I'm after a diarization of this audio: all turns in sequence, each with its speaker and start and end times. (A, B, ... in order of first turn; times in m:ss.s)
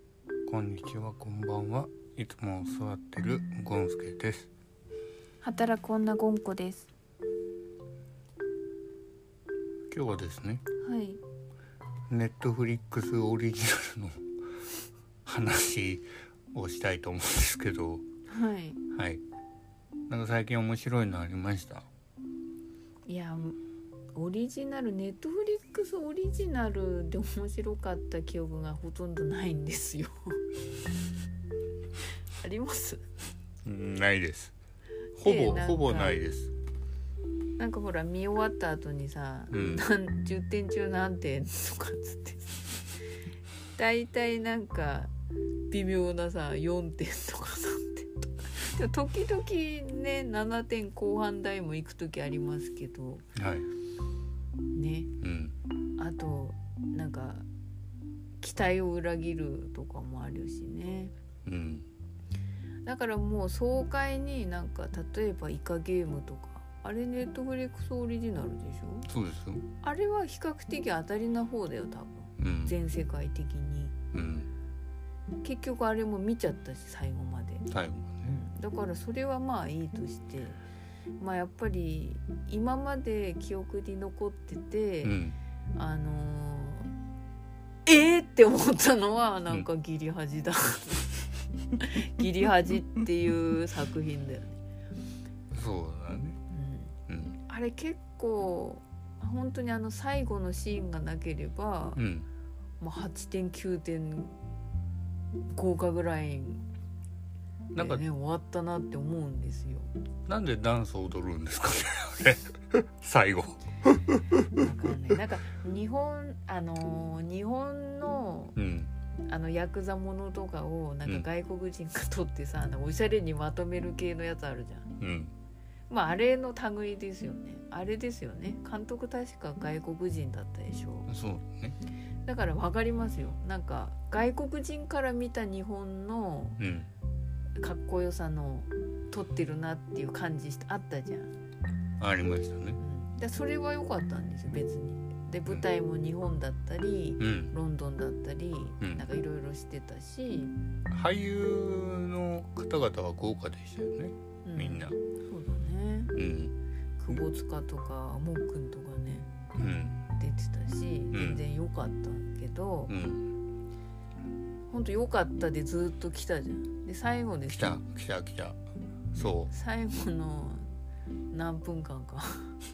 0:00.5-0:04.5 A
0:05.4-0:06.9 B
0:09.9-0:10.6 A
0:10.8-0:11.2 B
0:12.1-0:14.2 A
0:15.3-0:18.0 A
0:18.3-0:18.8 B
0:18.9-0:19.2 A
0:20.1-0:21.9 A
0:23.1-0:23.6 B
0:24.2-0:30.4 B
0:32.4-0:33.0 B
0:33.6-0:34.5 A
0:35.2-0:36.5 A
0:35.2-0:36.2 B
0:37.6-0:42.7 B
0:39.5-0:39.8 A
0:43.8-0:45.1 B
0:45.7-0:53.3 B
0:53.4-0:53.7 A
0:54.7-0:55.1 B
0:55.2-0:55.5 A
0:56.0-0:57.4 B
0:58.4-1:01.1 B
1:01.5-1:01.9 A
1:02.8-1:09.1 B
1:09.1-1:09.7 A
1:09.8-1:13.9 B
1:12.4-1:12.8 A
1:14.1-1:14.5 A
1:15.4-1:17.6 B
1:17.7-1:18.4 A
1:18.2-1:20.6 B
1:21.2-1:25.2 B
1:25.0-1:25.4 A
1:25.7-1:26.9 B
1:27.9-1:34.6 B
1:35.5-1:36.4 A
1:36.5-1:37.0 B
1:37.1-1:37.4 A
1:37.5-1:42.0 B
1:42.0-1:42.3 A
1:42.8-1:44.4 B
1:45.5-1:46.6 B
1:47.7-1:48.0 A
1:47.8-1:49.9 B
1:50.3-1:53.6 A
1:54.4-1:58.6 B
1:58.6-1:58.9 A
1:59.3-2:04.9 B
2:05.0-2:05.3 A
2:05.9-2:11.1 B
2:11.1-2:11.8 A
2:12.2-2:16.6 B
2:16.6-2:16.9 A
2:17.6-2:21.3 B
2:22.0-2:22.8 A
2:22.8-2:30.5 B
2:27.2-2:27.6 A
2:28.8-2:29.1 A
2:30.9-2:35.0 A
2:34.4-2:36.1 B
2:36.2-2:36.5 A
2:37.0-2:39.3 B
2:39.6-2:40.0 A
2:40.2-2:43.0 B
2:41.1-2:41.4 A
2:42.9-2:43.3 A
2:44.7-2:47.8 B
2:47.5-2:48.6 A
2:49.1-2:49.5 A
2:49.2-2:50.7 B
2:51.3-2:52.5 B